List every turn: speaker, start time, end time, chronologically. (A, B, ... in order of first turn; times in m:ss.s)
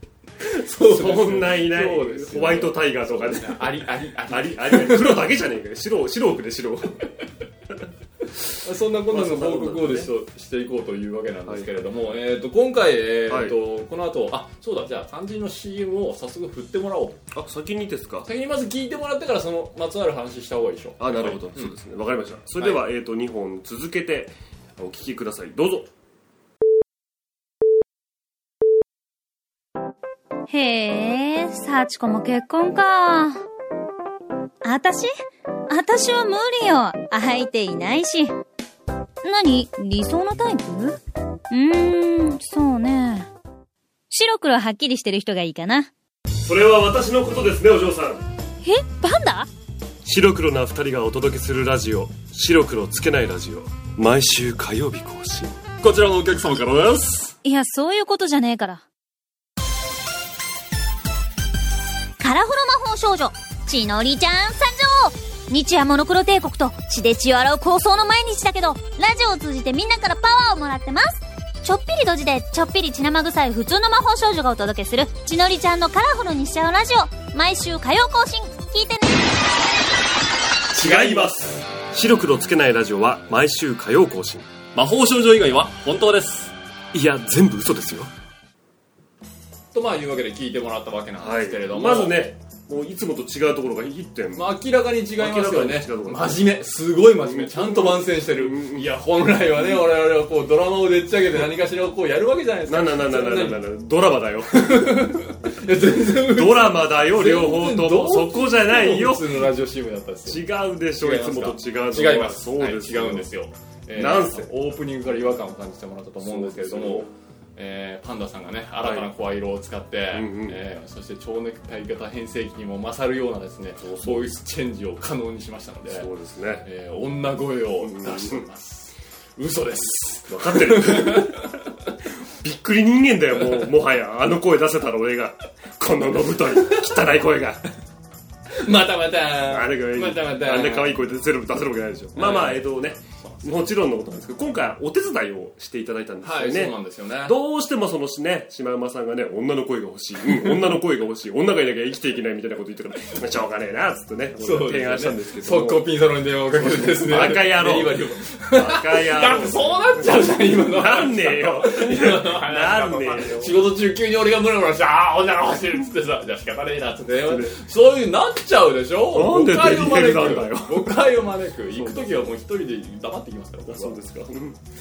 0:00.4-0:05.3 A
0:00.8-0:07.0 B
0:08.3-0:17.2 A
0:09.1-0:10.1 B
0:11.5-0:11.8 B
0:13.3-0:13.6 B
0:17.3-0:18.3 B
0:18.2-0:21.7 A
0:21.0-0:25.9 B
0:22.6-0:22.8 A
0:30.5-0:33.4 C
0:34.6-0:35.1 C
0:35.7-0:38.4 C
0:39.2-0:41.0 C
0:41.5-0:43.3 C
0:44.1-0:45.9 C
0:46.4-0:48.2 B
0:48.6-0:49.5 C
0:50.0-0:55.6 B
0:55.8-0:57.4 A
0:57.4-0:58.8 C
1:02.2-1:19.2 C
1:20.7-1:21.5 A
1:20.7-1:24.5 B
1:24.7-1:26.5 A
1:26.9-1:28.1 B
1:29.7-1:32.3 A
1:31.2-1:34.5 B
1:34.4-1:43.7 A
1:35.2-1:36.5 B
1:37.2-1:38.9 B
1:42.7-1:45.1 B
1:44.5-2:06.1 A
1:46.2-1:49.4 B
1:50.3-1:53.3 B
1:53.9-1:54.5 B
1:56.2-1:57.1 B
1:58.8-1:59.1 B
2:00.1-2:00.6 B
2:03.8-2:04.3 B
2:05.9-2:06.7 B
2:06.6-2:11.6 A
2:07.8-2:08.5 B
2:10.3-2:11.4 B
2:12.3-2:17.6 B
2:18.6-2:21.1 A
2:19.5-2:35.9 B
2:22.2-2:23.7 A
2:26.2-2:27.4 A
2:34.4-2:54.0 A
2:36.6-2:38.0 B
2:38.5-2:43.6 B
2:47.3-2:47.6 B
2:49.1-2:51.1 B
2:51.7-2:52.3 B
2:53.7-2:54.6 B